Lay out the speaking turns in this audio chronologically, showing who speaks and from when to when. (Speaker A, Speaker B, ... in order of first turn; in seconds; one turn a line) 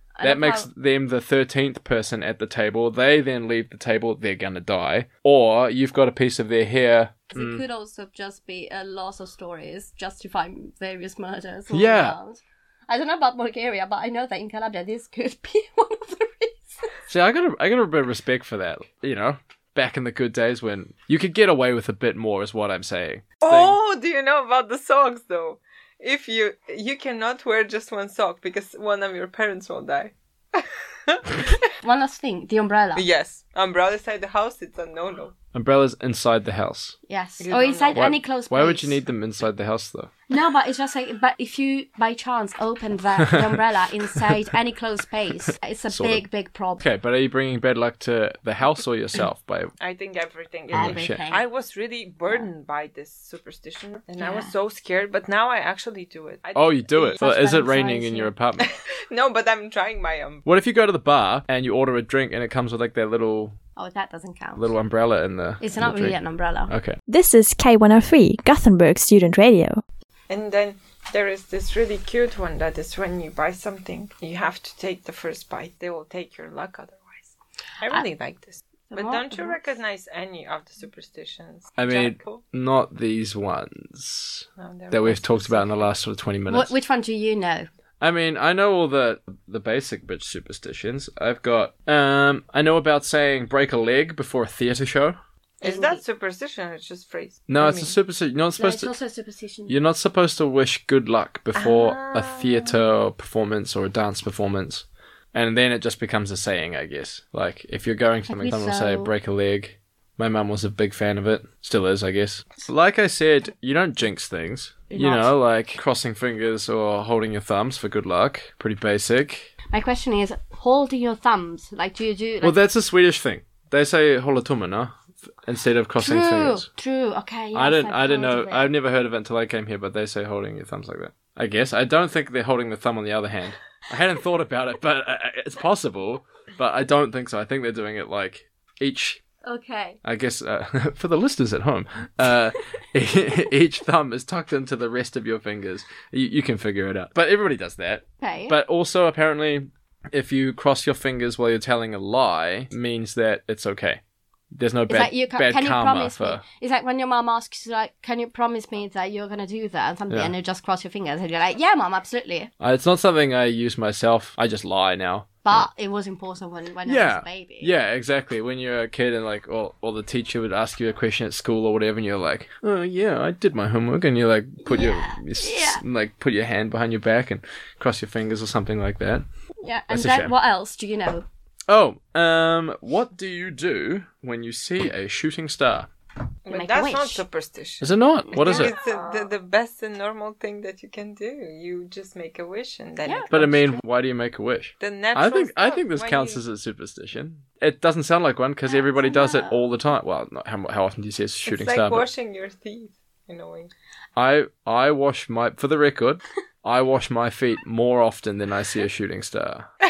Speaker A: 0.2-0.7
Speaker B: 0.2-7.6
Speaker A: 7.3-16.9
Speaker B: 11.7-12.2
Speaker B: 17.1-23.8
Speaker C: 23.4-31.6
Speaker A: 31.8-33.0
Speaker C: 33.0-35.4
Speaker B: 35.5-37.0
Speaker A: 37.1-39.0
Speaker C: 37.4-38.1
Speaker B: 37.9-40.1
Speaker A: 40.3-46.8
Speaker B: 45.9-46.2
Speaker B: 46.8-49.7
Speaker C: 49.8-57.2
Speaker B: 50.7-51.2
Speaker A: 50.7-51.4
Speaker A: 54.2-54.5
Speaker B: 56.5-58.7
Speaker A: 57.2-58.3
Speaker C: 58.6-60.5
Speaker B: 60.5-63.6
Speaker A: 63.8-64.6
Speaker B: 64.6-66.2
Speaker A: 65.6-66.7
Speaker B: 66.7-67.0
Speaker D: 67.1-69.8
Speaker C: 70.3-82.4
Speaker A: 78.9-79.6
Speaker B: 81.8-86.7
Speaker C: 84.6-85.9
Speaker A: 86.5-87.7
Speaker B: 88.0-95.2
Speaker C: 95.6-98.0
Speaker A: 95.6-96.0
Speaker B: 97.5-98.9
Speaker A: 98.6-99.8
Speaker B: 99.7-119.5
Speaker C: 101.5-102.8
Speaker A: 108.3-109.1
Speaker A: 114.9-115.3
Speaker A: 119.7-122.6
Speaker B: 122.4-126.7
Speaker A: 126.0-128.7
Speaker B: 127.5-139.2
Speaker A: 139.4-140.0
Speaker B: 140.0-154.0
Speaker A: 148.2-148.6
Speaker B: 154.5-156.4
Speaker A: 154.9-162.5
Speaker B: 162.6-165.7
Speaker A: 165.4-167.7
Speaker B: 166.9-179.3
Speaker A: 174.7-175.8
Speaker A: 179.6-181.2
Speaker B: 179.9-180.3
Speaker B: 181.7-185.9
Speaker C: 186.4-193.7
Speaker A: 186.5-187.2
Speaker B: 187.8-188.8
Speaker A: 188.3-189.2
Speaker A: 193.1-193.8
Speaker B: 193.3-202.1
Speaker C: 194.8-196.4
Speaker A: 198.7-199.6
Speaker C: 201.5-203.7
Speaker B: 204.2-209.7